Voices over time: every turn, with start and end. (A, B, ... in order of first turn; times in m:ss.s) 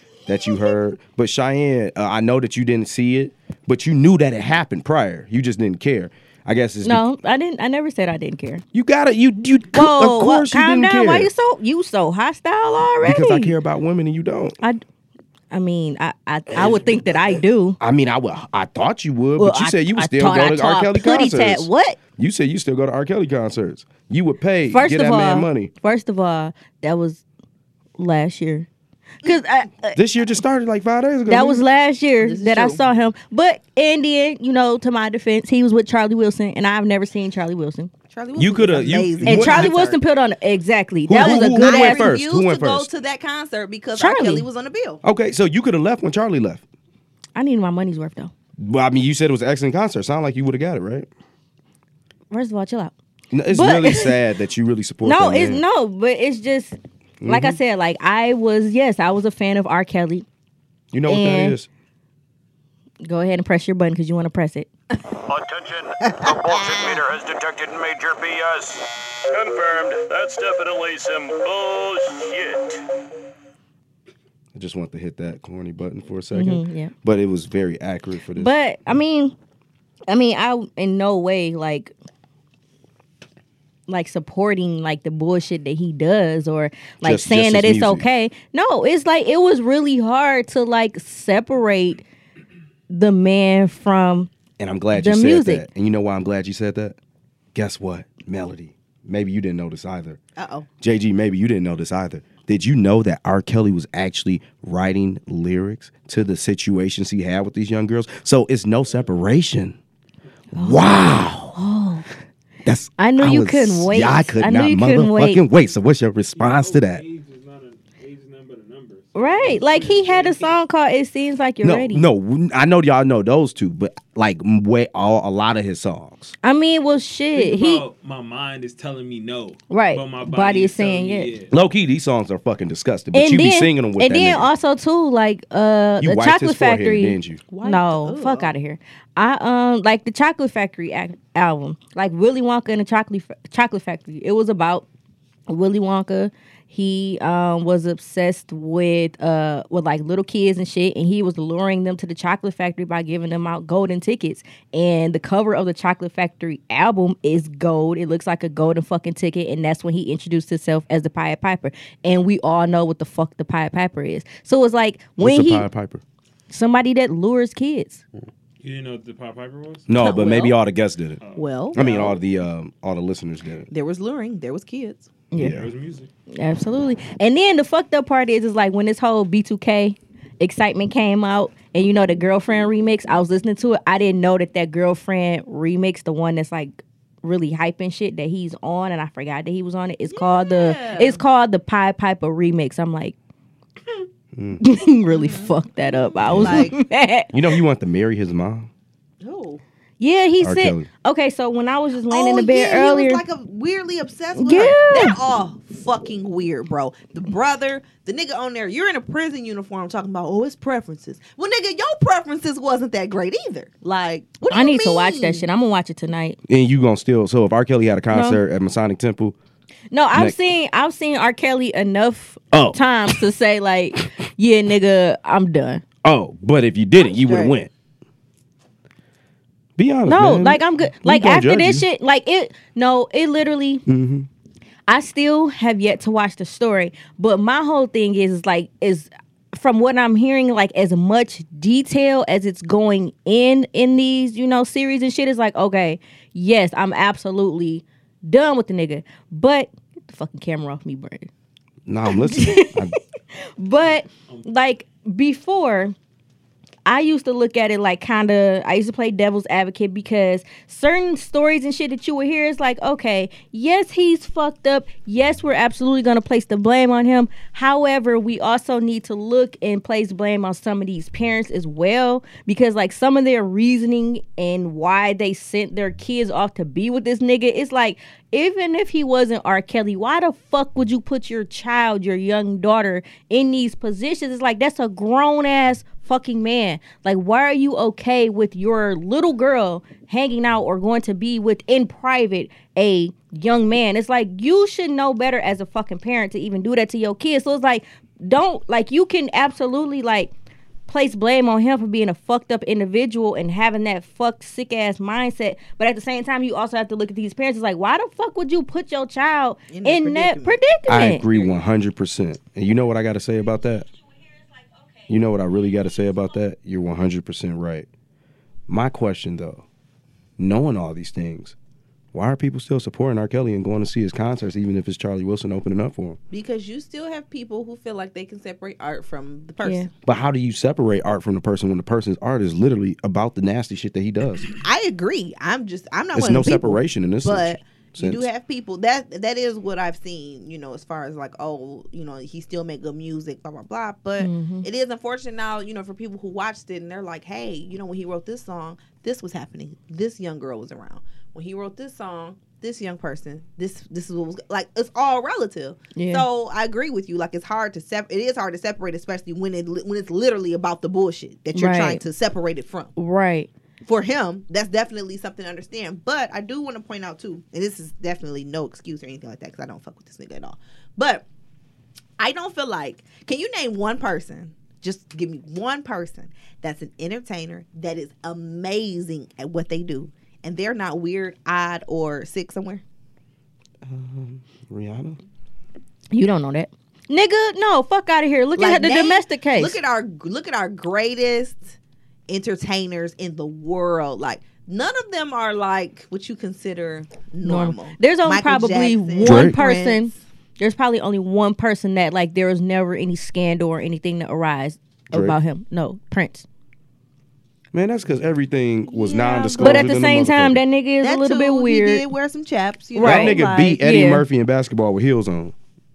0:00.3-0:07.1 A
0:06.8-0:08.6 B
0:08.7-0:11.3 A
0:09.7-0:13.5 B
0:13.0-0:14.6 A
0:15.5-0:17.8 B
0:17.8-0:25.7 A
0:19.4-0:22.0 B
0:24.7-0:27.2 B
0:28.0-0:28.7 B
0:29.2-0:30.0 B
0:30.0-0:31.6 A
0:31.3-0:37.9 B
0:32.2-0:32.9 C
0:38.1-0:40.0 C
0:38.4-0:39.8 A
0:39.2-0:42.1 B
0:41.1-0:42.9 A
0:41.2-0:45.0 C
0:44.0-0:44.4 B
0:45.0-0:46.6 A
0:47.4-0:48.3 B
0:48.6-0:51.1 A
0:52.3-0:53.0 B
0:53.3-0:55.6 A
0:53.5-0:54.2 B
0:55.0-1:00.3 B
0:57.2-0:57.6 A
1:00.9-1:01.7 A
1:01.1-1:01.6 B
1:03.0-1:04.7 B
1:05.2-1:12.8 D
1:14.5-1:18.5 A
1:16.3-1:16.9 B
1:18.4-1:19.4 B
1:20.1-1:21.9 B
1:23.9-1:32.0 B
1:27.0-1:28.0 A
1:32.9-1:34.3 B
1:34.6-1:37.0 A
1:34.9-1:35.7 B
1:37.6-1:40.2 A
1:40.4-1:40.7 C
1:40.8-1:49.8 A
1:50.5-1:50.9 B
1:50.6-1:51.6 A
1:51.5-1:52.1 B
1:52.6-1:57.0 A
1:53.0-1:55.4 B
1:56.4-2:00.6 E
1:59.2-2:02.1 B
2:01.6-2:06.4 A
2:06.4-2:07.8 B
2:07.4-2:11.5 E
2:09.7-2:11.3 B
2:11.5-2:14.5 A
2:13.1-2:24.9 B
2:16.0-2:17.4 A
2:17.5-2:18.5 C
2:25.5-2:45.7 B
2:45.2-2:46.0 A
2:46.5-2:48.0 B
2:48.6-2:49.9 E
2:49.9-2:51.2 A
2:50.0-2:50.5 C
2:51.2-2:52.0 E
2:51.4-2:52.2 C
2:51.7-2:53.7 A
2:53.7-2:55.1 C
2:55.3-2:55.6 B
2:55.4-2:55.7 A
2:55.4-2:56.1 E
2:56.3-3:13.2 B
3:10.1-3:11.2 C
3:14.3-3:14.6 A
3:14.6-3:17.3 B
3:15.1-3:16.8 C
3:16.2-3:16.7 A
3:17.3-3:18.7 A
3:19.2-3:19.6 C
3:20.0-3:23.2 B
3:20.4-3:20.9 A
3:22.1-3:35.5 C
3:24.4-3:25.2 B
3:34.5-3:36.4 B
3:36.5-3:39.4 A
3:38.1-3:38.4 B
3:39.9-3:45.8 B
3:42.5-3:43.2 A
3:46.0-3:47.7 A
3:47.1-3:47.6 C
3:49.8-3:51.9 A
3:50.1-3:53.8 B
3:53.9-3:54.3 A
3:54.9-4:11.3 B
4:11.9-4:13.0 A
4:12.1-4:12.9 B
4:13.4-4:16.0 B
4:16.9-5:00.3 B
5:00.9-5:11.3 B
5:09.7-5:10.6 C
5:10.9-5:13.9 A
5:14.5-5:15.1 B
5:15.1-5:17.9 A
5:18.7-5:19.6 A
5:20.4-5:21.6 A
5:22.1-5:26.2 A
5:26.3-5:29.9 C
5:29.6-5:29.9 B
5:30.1-5:34.5 A
5:34.6-6:02.9 C
5:36.1-5:38.3 A
5:44.2-5:44.7 B
5:56.0-5:56.2 B
6:01.5-6:02.0 B
6:03.0-6:03.5 B
6:03.9-6:11.2 C
6:12.2-6:22.8 C
6:23.8-6:25.2 A
6:26.1-6:29.8 B
6:28.6-6:31.8 C
6:32.3-6:40.2 C
6:37.4-6:46.5 B
6:39.2-6:39.6 A
6:45.1-6:45.4 A
6:47.7-6:50.6 A
6:48.9-6:49.9 C
6:49.6-6:52.0 B
6:51.0-6:53.8 C
6:53.0-6:54.2 B
6:53.0-6:55.5 A